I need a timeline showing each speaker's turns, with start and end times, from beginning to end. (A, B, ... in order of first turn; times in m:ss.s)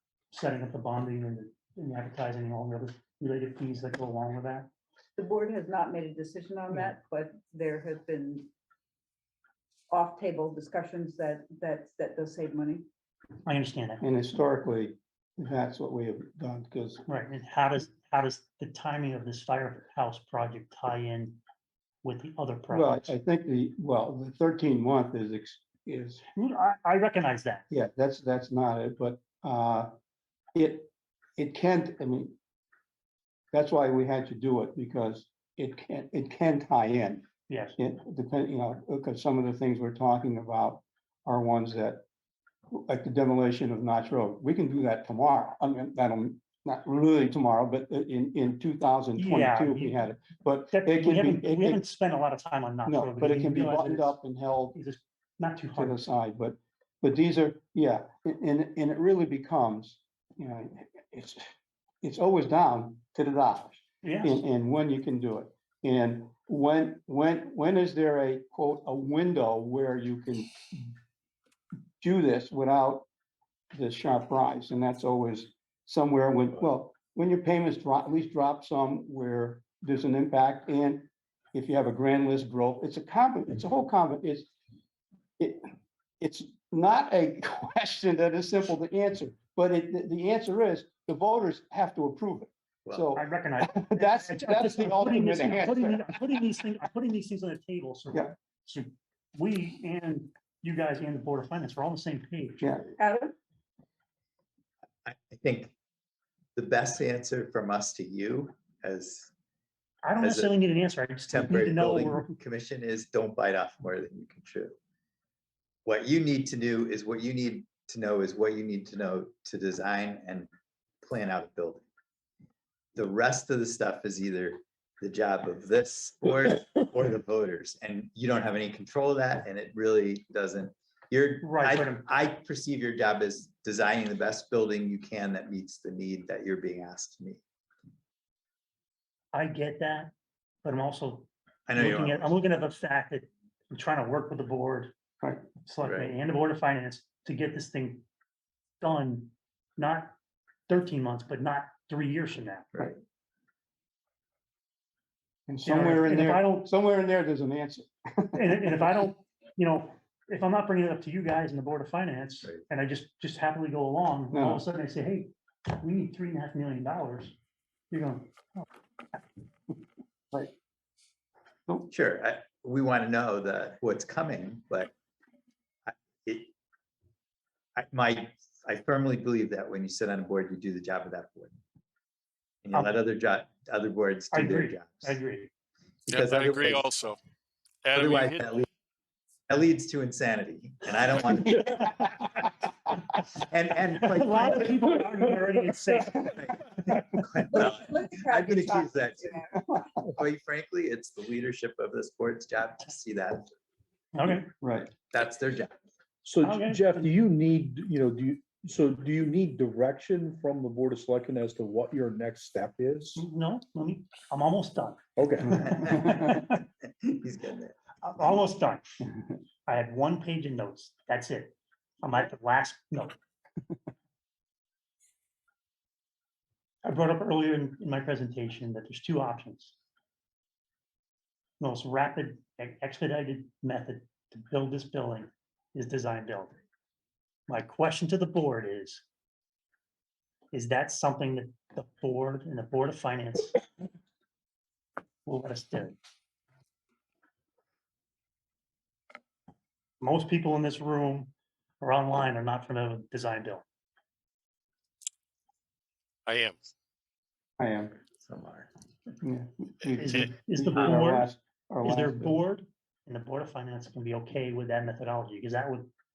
0:00.3-0:04.7 A
0:05.2-0:08.5 B
0:09.9-0:12.8 B
0:13.4-0:14.0 A
0:14.0-0:17.0 C
0:17.1-0:21.4 A
0:22.0-0:23.1 A
0:22.7-0:26.2 C
0:26.3-0:27.6 A
0:27.7-0:29.9 C
0:30.5-0:32.3 C
0:33.5-0:37.3 C
0:37.5-0:37.8 A
0:37.8-0:42.0 C
0:42.7-0:51.8 C
0:49.2-0:50.1 A
0:50.7-0:54.2 A
0:52.8-0:54.8 C
0:54.7-0:56.0 A
0:55.8-1:01.4 C
1:02.0-1:10.8 C
1:04.0-1:04.4 A
1:12.0-1:13.1 C
1:13.7-1:24.5 C
1:25.4-1:25.6 C
1:26.2-1:36.2 C
1:33.1-1:42.8 A
1:43.0-1:43.3 B
1:45.0-1:45.7 D
1:46.6-1:49.3 D
1:50.0-1:52.3 A
1:50.2-1:50.5 D
1:51.3-1:54.8 D
1:55.8-2:00.5 D
2:01.0-2:01.8 D
2:02.9-2:17.4 D
2:11.4-2:12.0 A
2:19.3-2:20.1 A
2:20.6-2:24.9 A
2:21.7-2:22.4 D
2:25.6-2:28.0 A
2:25.8-2:26.1 D
2:28.8-2:30.1 A
2:30.7-2:32.9 A
2:35.5-2:38.7 C
2:35.6-2:36.7 A
2:38.3-2:47.3 A
2:44.3-2:44.6 C
2:47.9-2:48.3 A
2:51.9-2:54.9 D
2:55.9-2:56.5 D
2:57.8-3:01.5 D
3:02.6-3:05.2 D
3:04.3-3:05.5 A
3:06.0-3:06.8 D
3:06.1-3:07.2 E
3:07.8-3:08.5 E
3:07.9-3:08.7 D
3:09.5-3:12.1 D
3:13.4-3:14.9 D
3:14.0-3:16.4 A
3:16.2-3:19.4 D
3:17.5-3:19.9 B
3:20.0-3:23.4 D
3:24.1-3:24.5 A
3:24.6-3:24.9 C
3:25.1-3:25.7 D
3:26.2-3:33.2 F
3:26.4-3:27.1 A
3:33.2-3:36.6 A
3:35.2-3:36.1 F
3:35.6-3:36.4 D
3:37.0-3:37.8 D
3:38.0-3:38.8 A
3:39.6-3:43.2 A
3:46.8-3:49.7 A
3:51.6-3:56.6 A
3:57.5-3:59.0 A
4:00.5-4:03.6 A
4:05.2-4:06.0 A
4:10.0-4:13.6 A
4:16.2-4:16.7 E
4:17.6-4:17.9 C
4:18.3-4:18.6 D
4:19.2-4:22.4 C
4:20.0-4:21.3 A
4:21.8-4:25.9 A